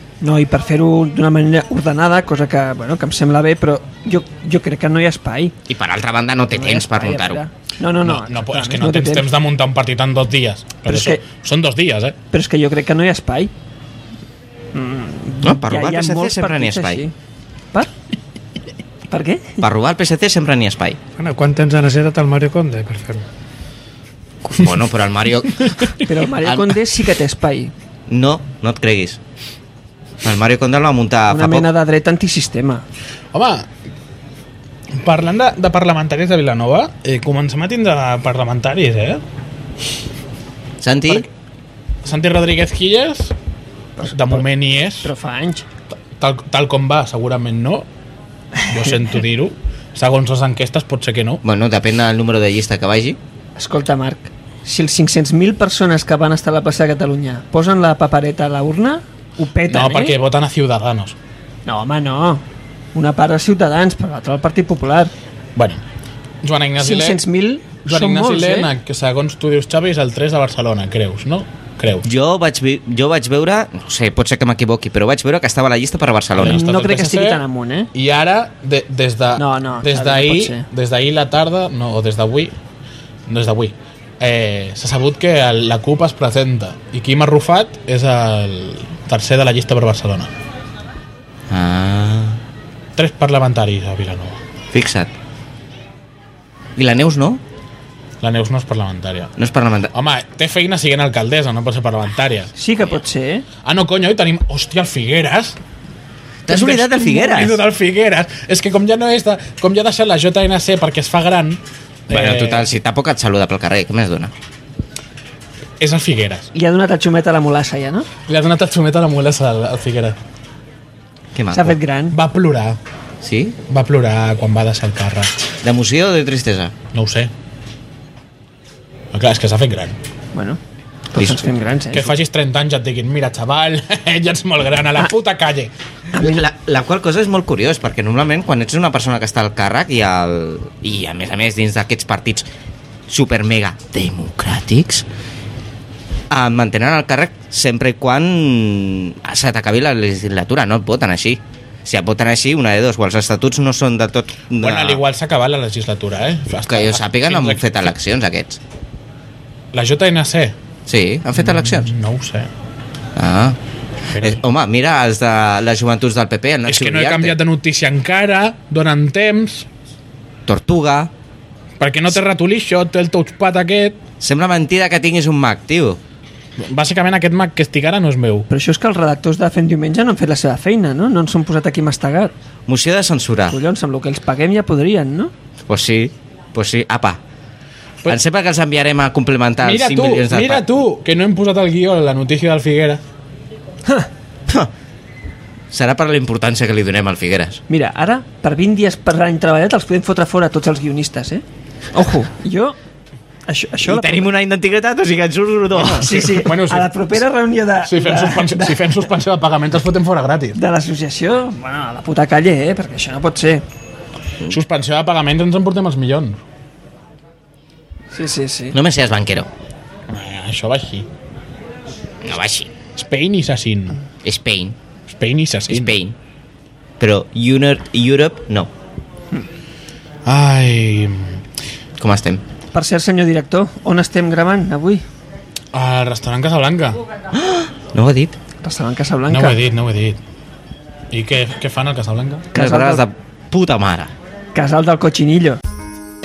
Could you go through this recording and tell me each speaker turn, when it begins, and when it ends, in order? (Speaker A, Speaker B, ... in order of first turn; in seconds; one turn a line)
Speaker A: 0.2-5.5
Speaker B: 5.7-7.4
Speaker A: 6.5-9.3
Speaker C: 8.0-12.2
Speaker A: 10.8-11.2
Speaker A: 12.3-13.5
Speaker A: 14.7-17.1
Speaker B: 15.4-17.0
Speaker A: 19.1-19.6
Speaker B: 19.6-21.0
Speaker D: 21.2-23.2
Speaker B: 24.4-26.8
Speaker A: 26.0-27.7
Speaker B: 28.1-29.2
Speaker B: 30.2-31.7
Speaker A: 31.3-32.8
Speaker C: 33.3-33.7
Speaker C: 34.9-39.2
Speaker B: 40.8-41.3
Speaker C: 42.0-43.3
Speaker A: 44.0-44.4
Speaker C: 44.0-45.1
Speaker A: 45.0-45.6
Speaker C: 46.1-47.9
Speaker C: 48.7-51.4
Speaker B: 51.4-53.2
Speaker A: 53.6-60.2
Speaker C: 59.7-61.1
Speaker A: 61.6-65.1
Speaker C: 65.5-65.8
Speaker C: 66.4-67.2
Speaker A: 66.8-68.7
Speaker C: 67.8-72.1
Speaker B: 72.0-76.6
Speaker C: 76.3-77.4
Speaker A: 76.4-77.9
Speaker C: 77.9-82.5
Speaker A: 79.4-80.7
Speaker C: 83.3-90.3
Speaker B: 91.5-92.4
Speaker C: 93.0-94.4
Speaker B: 94.7-95.1
Speaker B: 96.8-97.4
Speaker C: 98.2-99.3
Speaker B: 99.4-99.9
Speaker C: 99.9-102.5
Speaker A: 102.5-103.5
Speaker C: 103.6-105.6
Speaker B: 106.5-107.6
Speaker C: 106.5-112.7
Speaker B: 112.1-114.3
Speaker C: 115.8-116.5
Speaker A: 116.5-118.1
Speaker C: 118.3-120.2
Speaker B: 121.3-121.8
Speaker A: 121.5-122.2
Speaker C: 122.1-122.8
Speaker B: 123.2-123.6
Speaker C: 123.7-125.3
Speaker B: 125.6-126.7
Speaker C: 126.9-127.3
Speaker C: 129.1-130.0
Speaker A: 130.3-130.6
Speaker A: 131.1-132.1
Speaker C: 131.9-135.7
Speaker A: 136.1-136.4
Speaker B: 136.2-142.5
Speaker B: 143.1-145.0
Speaker B: 146.3-155.0
Speaker C: 154.6-157.7
Speaker B: 156.7-158.6
Speaker C: 159.7-160.6
Speaker B: 160.9-161.9
Speaker C: 161.4-162.5
Speaker B: 163.2-163.6
Speaker C: 164.1-164.4
Speaker B: 164.2-167.3
Speaker C: 166.7-169.7
Speaker B: 170.5-171.1
Speaker C: 171.8-174.0
Speaker B: 174.2-176.0
Speaker C: 176.6-178.5
Speaker A: 178.5-182.3
Speaker B: 182.7-183.6
Speaker A: 183.5-185.3
Speaker B: 185.7-187.2
Speaker B: 188.1-190.6
Speaker C: 189.6-193.0
Speaker B: 195.7-197.6
Speaker A: 197.7-202.8
Speaker A: 203.5-204.3
Speaker B: 203.8-206.3
Speaker A: 205.8-209.0
Speaker C: 206.0-206.9
Speaker C: 207.8-210.6
Speaker A: 210.5-213.6
Speaker C: 214.5-216.4
Speaker A: 218.1-218.8
Speaker B: 218.7-219.5
Speaker C: 220.1-221.1
Speaker B: 222.2-222.7
Speaker C: 222.9-224.0
Speaker B: 224.2-224.8
Speaker C: 225.1-226.0
Speaker B: 225.7-226.1
Speaker B: 227.0-228.7
Speaker C: 230.2-231.4
Speaker B: 232.0-232.4
Speaker A: 232.7-235.0
Speaker C: 235.7-237.0
Speaker B: 237.3-238.3
Speaker A: 238.6-239.6
Speaker C: 239.3-240.2
Speaker C: 241.1-242.5
Speaker A: 242.5-243.0
Speaker B: 242.5-244.1
Speaker A: 244.5-245.6